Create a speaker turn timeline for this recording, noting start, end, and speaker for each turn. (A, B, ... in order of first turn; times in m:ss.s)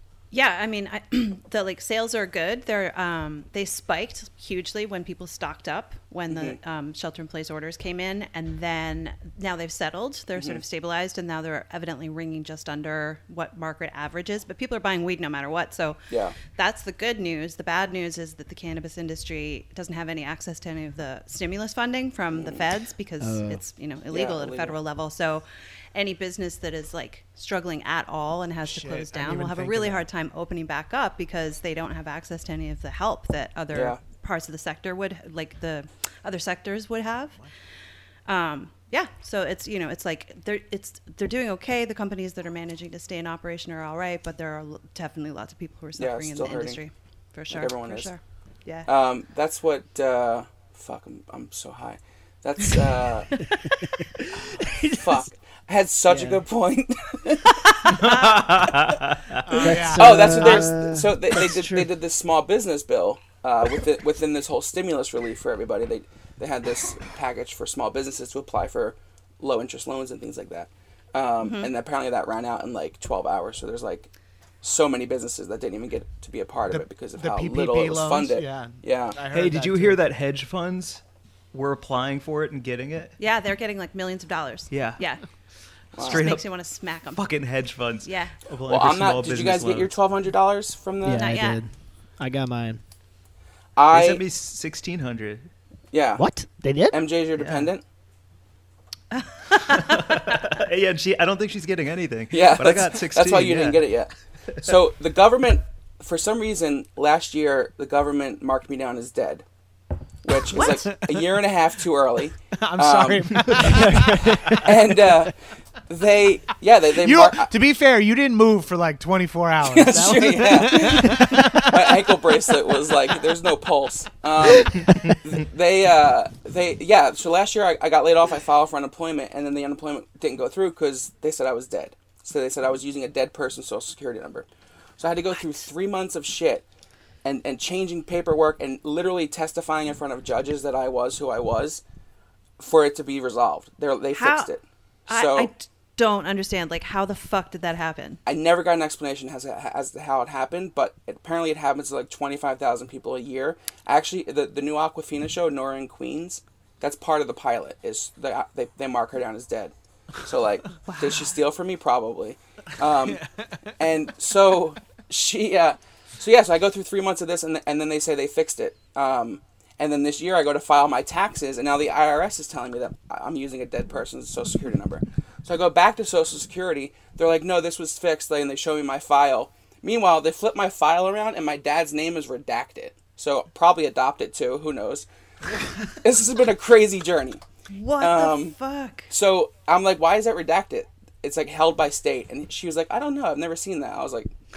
0:00.3-0:37.4 A
0:06.3-0:06.6 B
0:10.4-0:10.6 B
0:16.1-0:16.4 B
0:22.3-0:22.6 B
0:23.2-0:23.6 C
0:24.1-0:24.8 B
0:28.6-0:30.0 D
0:33.7-0:34.0 B
0:38.3-0:48.9 A
0:46.0-0:46.8 B
0:47.5-0:48.1 B
0:48.9-0:53.4 B
0:54.0-0:55.2 C
0:54.9-0:57.7 B
0:56.1-0:56.4 C
0:57.7-0:58.5 A
0:57.8-0:59.4 E
0:59.4-1:00.6 D
0:59.6-1:01.9 C
0:59.6-1:14.1 B
1:11.4-1:11.7 A
1:14.6-1:19.2 B
1:16.7-1:20.0 D
1:19.3-1:23.2 E
1:23.2-1:25.2 A
1:24.7-1:25.0 E
1:25.9-1:26.3 B
1:26.0-1:26.5 E
1:26.0-1:27.3 A
1:27.1-1:29.9 E
1:28.0-1:28.4 A
1:28.7-1:31.3 B
1:31.0-1:32.8 C
1:31.1-1:31.6 A
1:33.8-1:34.2 B
1:33.9-1:35.5 E
1:35.9-1:36.2 B
1:36.2-1:37.0 C
1:36.9-1:37.8 B
1:37.4-1:37.7 E
1:39.1-1:40.2 A
1:39.5-1:43.8 E
1:42.3-1:44.1 B
1:44.6-1:49.4 B
1:50.2-1:53.5 B
1:50.5-1:50.8 A
1:52.6-1:54.6 D
1:53.4-1:53.8 E
1:53.6-1:54.7 C
1:54.6-1:55.3 B
1:55.9-1:57.5 B
1:57.0-2:02.2 D
1:59.6-2:14.5 B
2:04.8-2:05.2 E
2:15.0-2:16.6 B
2:17.2-2:21.8 B
2:22.6-2:25.5 B
2:24.1-2:24.5 A
2:25.1-2:28.2 A
2:28.2-2:43.2 B
2:40.8-2:41.3 A
2:43.1-2:43.5 D
2:43.8-3:05.0 B
3:06.0-3:07.4 B
3:07.7-3:09.1 A
3:08.0-3:08.6 B
3:09.1-3:14.3 B